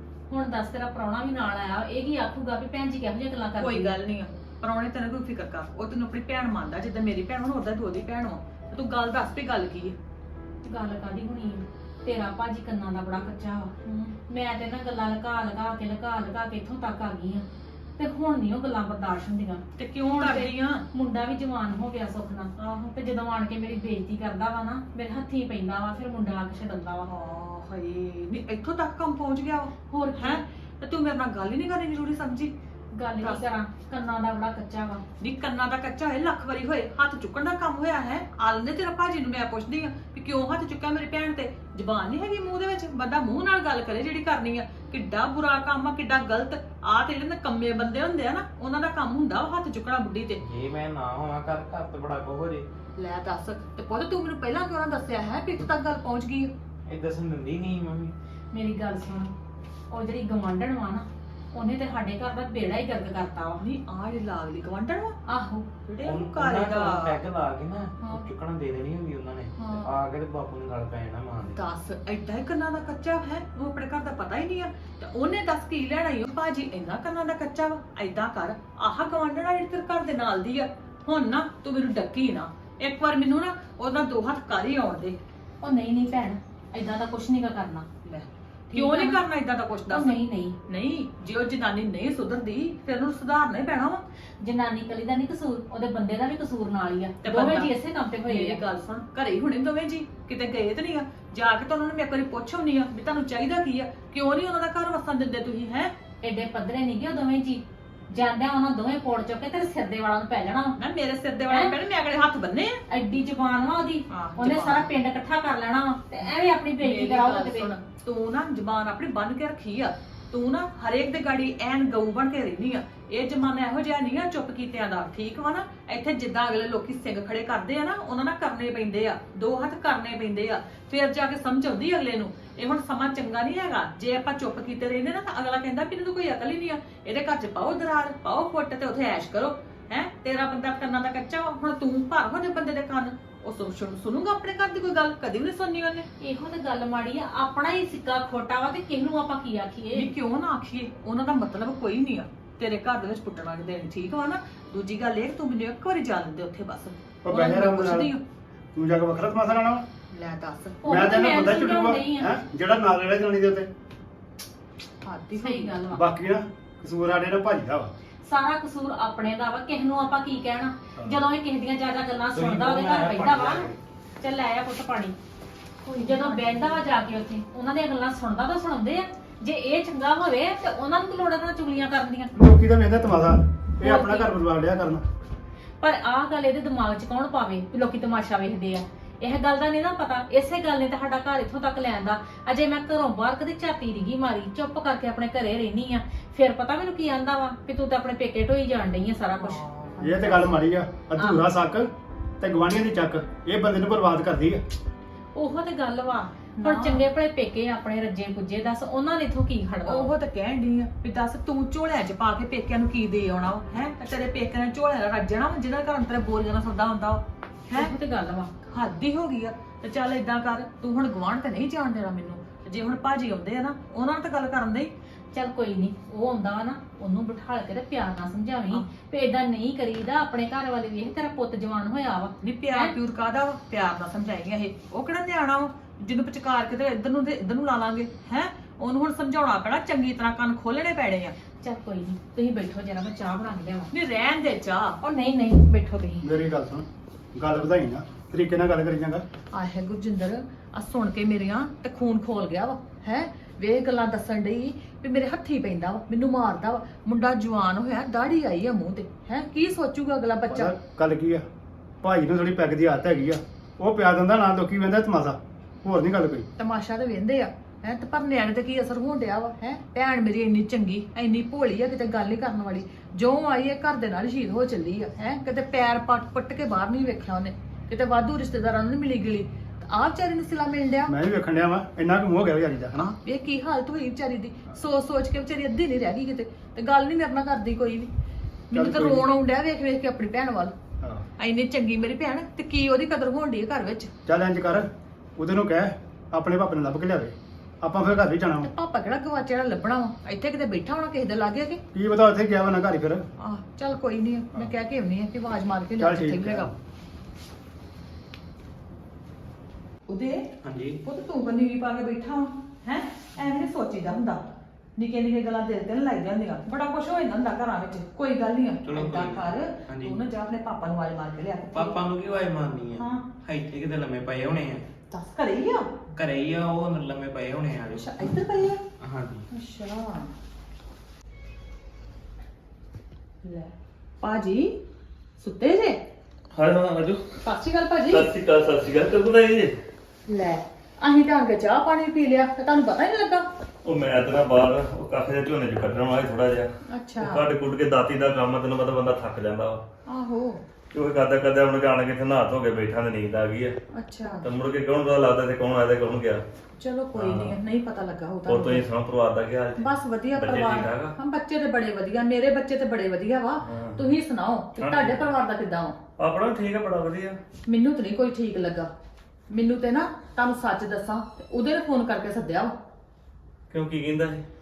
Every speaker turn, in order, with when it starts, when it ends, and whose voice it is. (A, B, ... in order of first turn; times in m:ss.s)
0:00.3-0:04.0 A
0:03.6-0:10.0 B
0:10.6-0:13.7 A
0:13.8-0:14.1 B
0:14.3-0:17.4 A
0:18.0-0:27.1 A
0:19.8-0:20.8 B
0:22.6-0:22.9 B
0:27.0-0:32.5 B
0:29.9-0:30.4 A
0:32.9-0:35.0 A
0:35.2-0:50.4 B
0:50.4-0:52.7 C
0:53.0-0:56.5 B
0:56.9-0:58.1 C
0:58.5-0:59.3 A
0:59.9-1:03.6 A
1:03.6-1:07.2 B
1:06.0-1:11.6 C
1:08.0-1:08.3 B
1:09.6-1:10.0 B
1:11.4-1:25.2 B
1:25.6-1:27.9 A
1:28.0-1:34.0 B
1:28.7-1:29.2 A
1:29.9-1:30.6 A
1:34.4-1:38.6 A
1:37.2-1:37.7 B
1:38.3-1:45.9 B
1:46.2-1:50.8 A
1:50.8-1:52.8 B
1:52.9-1:57.7 A
1:54.1-1:54.9 B
1:56.2-2:26.1 B
2:26.2-2:30.1 A
2:29.9-2:38.2 B
2:37.2-2:38.1 D
2:38.8-2:39.8 D
2:40.1-2:40.8 B
2:40.8-2:42.3 A
2:40.8-2:43.7 D
2:45.0-2:45.8 B
2:45.4-2:46.0 A
2:45.9-2:47.9 D
2:48.2-2:53.7 A
2:52.3-2:53.8 C
2:54.2-2:55.2 A
2:55.8-2:56.8 B
2:56.0-3:02.3 A
3:02.4-3:05.0 D
3:03.8-3:04.3 A
3:05.8-3:19.6 A
3:19.4-3:20.5 B
3:20.0-3:24.6 D
3:25.4-3:30.1 A
3:26.6-3:27.0 B
3:29.8-3:37.9 B
3:37.7-3:38.5 A
3:38.7-3:44.9 B
3:45.3-3:52.9 A
3:52.4-4:01.4 B
4:01.6-4:03.9 A
4:03.9-4:05.0 B
4:05.0-4:06.3 A
4:06.2-4:09.2 D
4:09.5-4:20.8 B
4:20.5-4:21.4 D
4:22.0-4:26.5 D
4:26.6-4:41.1 B
4:41.1-4:43.1 D
4:43.2-4:48.1 B
4:48.7-4:50.7 B
4:48.7-4:49.3 D
4:51.4-4:54.1 B
4:54.3-4:58.7 D
4:58.6-5:01.8 B
5:01.9-5:03.2 D
5:03.4-5:06.7 B
5:06.0-5:06.7 D
5:10.1-5:10.5 B
5:10.6-5:11.0 C
5:11.0-5:14.4 B
5:15.0-5:22.0 B
5:18.8-5:20.2 C
5:21.7-5:24.9 C
5:23.0-5:23.3 B
5:25.1-5:25.9 B
5:26.1-5:28.3 C
5:27.9-5:28.8 B
5:29.0-5:29.5 C
5:29.5-5:30.3 B
5:33.4-5:34.8 B
5:35.4-5:36.0 B
5:36.5-5:37.2 E
5:37.4-5:38.3 B
5:38.1-5:39.7 E
5:40.3-5:43.5 B
5:43.8-5:46.7 E
5:46.9-5:47.4 B
5:47.2-5:49.8 E
5:50.1-5:50.6 B
5:50.9-5:53.8 E
5:53.9-5:54.5 B
5:54.4-5:56.4 E
5:56.8-5:58.8 B
5:57.1-5:57.6 E
5:58.5-6:01.1 E
5:59.8-6:06.0 B
6:03.6-6:04.1 E
6:04.8-6:05.3 E
6:06.2-6:07.4 E
6:07.7-6:08.9 B
6:09.5-6:12.8 B
6:13.7-6:14.4 E